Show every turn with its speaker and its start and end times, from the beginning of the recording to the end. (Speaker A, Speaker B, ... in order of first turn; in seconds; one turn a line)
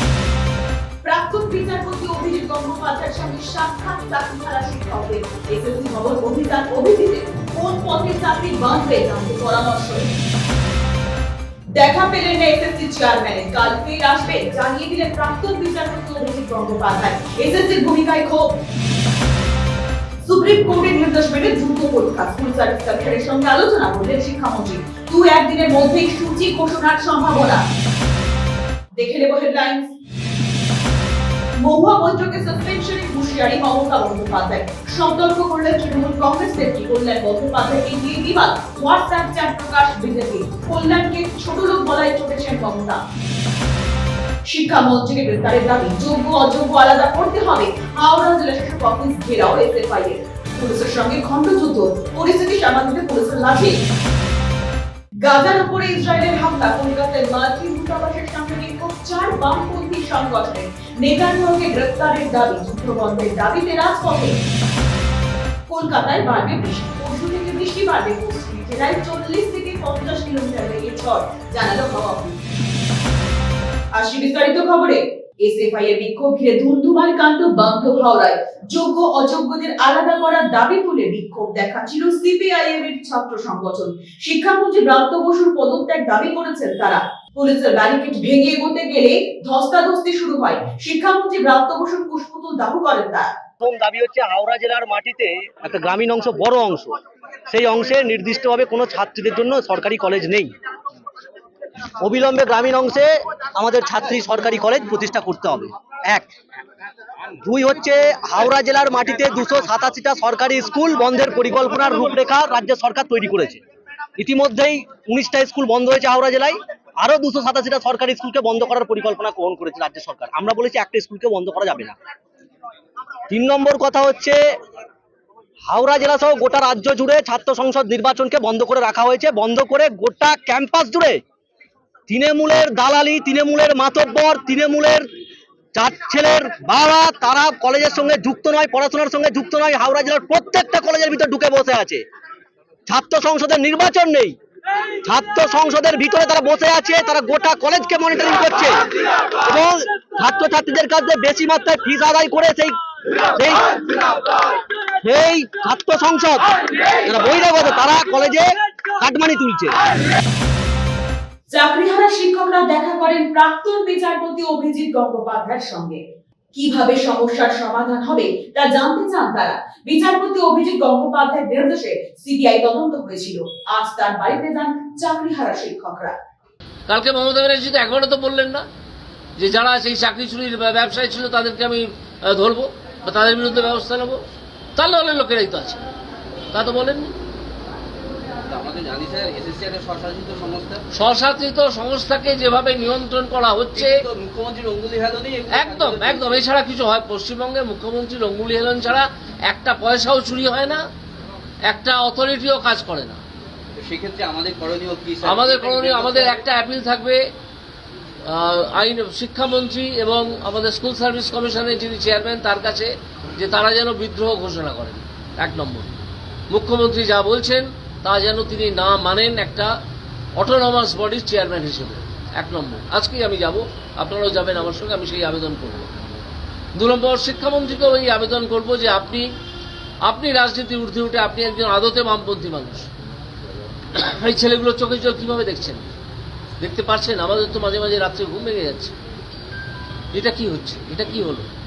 Speaker A: 1.0-10.1
Speaker A: 11.8-18.5
Speaker A: 20.2-27.6
Speaker A: 28.9-29.9
Speaker A: 31.6-43.0
Speaker A: 44.5-53.7
Speaker A: 55.2-64.3
Speaker A: 65.7-72.4
Speaker A: 73.9-93.3
Speaker B: 93.6-100.5
Speaker B: 102.0-106.3
Speaker B: 107.4-113.6
Speaker B: 114.2-122.0
Speaker B: 123.3-124.5
Speaker B: 125.7-131.2
Speaker B: 132.1-135.1
Speaker B: 135.7-142.1
Speaker B: 142.9-144.4
Speaker B: 145.0-152.8
Speaker B: 153.3-154.3
Speaker B: 155.0-159.8
Speaker A: 161.5-166.0
Speaker A: 166.5-176.2
Speaker C: 176.9-178.6
Speaker C: 179.4-184.2
Speaker C: 184.8-185.8
Speaker C: 186.5-187.1
Speaker D: 188.4-190.8
Speaker C: 190.9-194.0
Speaker D: 193.7-196.5
Speaker C: 195.5-200.8
Speaker C: 201.7-203.2
Speaker D: 203.8-206.5
Speaker C: 205.2-207.2
Speaker C: 208.3-215.9
Speaker C: 216.5-219.7
Speaker C: 220.4-225.9
Speaker C: 226.8-229.2
Speaker C: 230.1-232.9
Speaker C: 234.1-235.9
Speaker C: 236.6-238.9
Speaker C: 240.1-241.5